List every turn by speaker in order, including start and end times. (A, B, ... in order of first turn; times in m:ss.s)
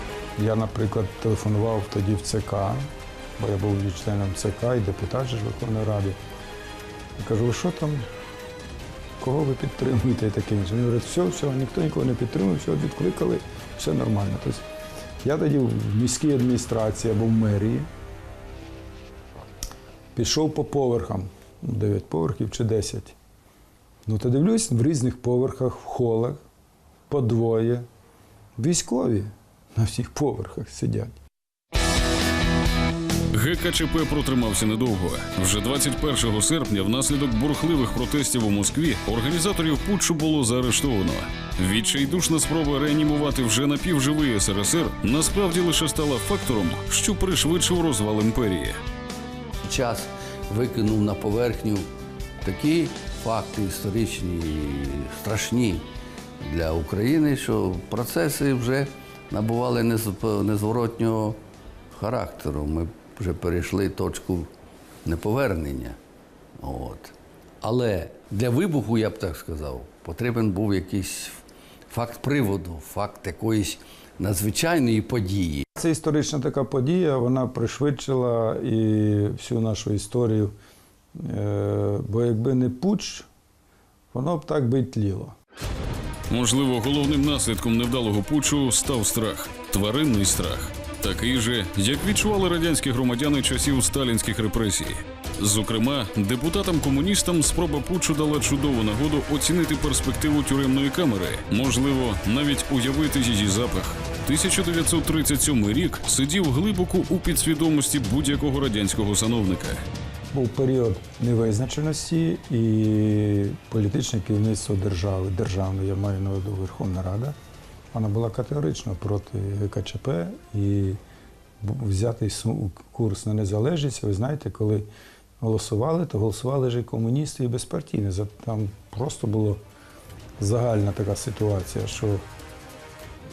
0:00.4-0:06.2 A
0:07.2-0:08.1 A
0:09.2-0:14.6 A
0:15.2-0:17.9 A
0:20.1-0:23.1 A
0:24.0-0:26.4 A
0:27.1-0:27.8 A
0:28.6-0:31.2 A
0:33.3-0:48.8 B
0:49.6-0:51.9 C
0:52.4-0:55.8 C
0:56.4-1:01.4 C
1:01.9-1:04.5 C
1:05.0-1:06.0 C
1:06.6-1:11.4 C
1:11.9-1:15.6 C
1:15.8-1:20.5 A
1:21.1-1:23.3 A
1:24.1-1:25.4 A
1:26.3-1:49.8 B
1:50.3-1:57.4 A
1:57.9-2:01.0 A
2:01.6-2:04.9 A
2:05.4-2:09.6 A
2:10.4-2:12.2 A